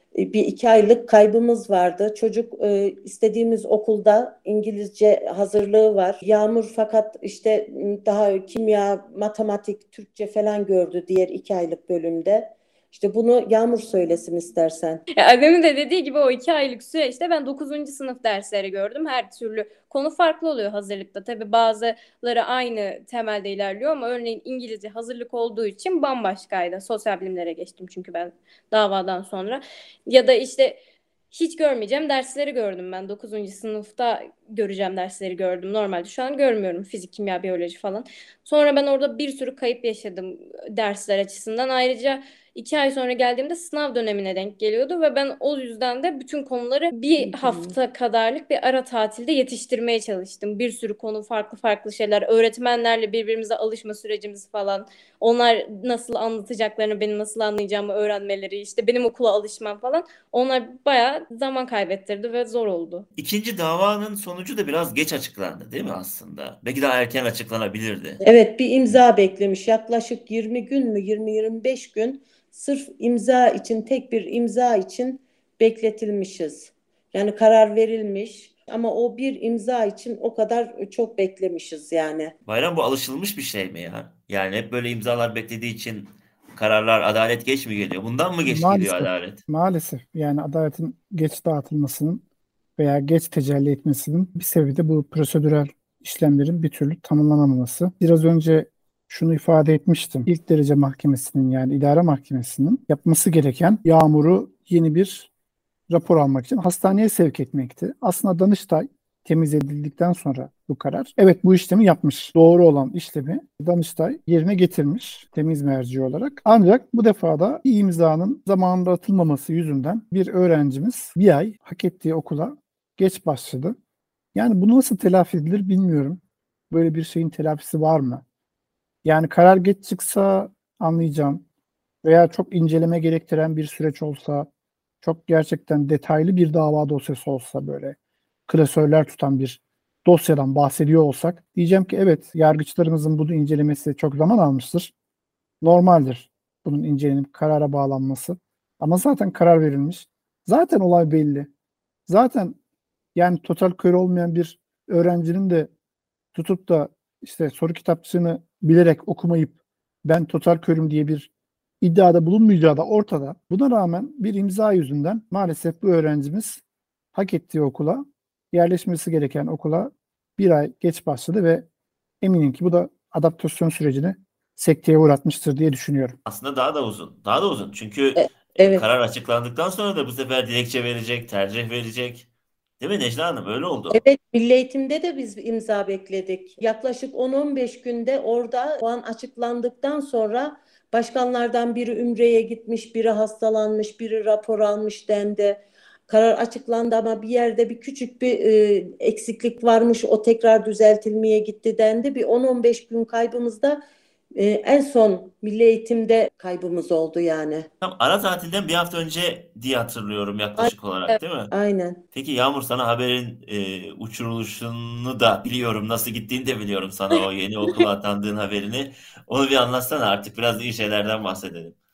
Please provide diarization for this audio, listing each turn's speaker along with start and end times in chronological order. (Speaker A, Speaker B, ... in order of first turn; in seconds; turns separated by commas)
Speaker A: 0.1-15.0, Speaker B: 15.2-30.8, Speaker B: 31.3-63.1, Speaker A: 47.3-47.7, Speaker C: 63.2-68.2, Speaker A: 68.2-82.3, Speaker C: 82.5-89.4, Speaker D: 88.4-92.2, Speaker D: 92.8-105.3, Speaker D: 105.9-123.7, Speaker D: 124.3-126.2, Speaker D: 126.7-128.2, Speaker D: 129.0-131.4, Speaker D: 132.0-134.5, Speaker D: 135.0-138.0, Speaker D: 138.5-144.9, Speaker D: 145.6-151.5, Speaker D: 152.1-152.6, Speaker D: 153.1-155.7, Speaker D: 156.3-161.3, Speaker D: 161.8-166.6, Speaker D: 167.1-171.7, Speaker D: 172.2-176.2, Speaker C: 176.2-182.3, Speaker A: 178.2-178.8, Speaker C: 182.8-184.0, Speaker A: 183.9-203.8, Speaker A: 204.3-207.7, Speaker C: 207.8-211.5, Speaker A: 211.5-212.0, Speaker C: 212.1-221.8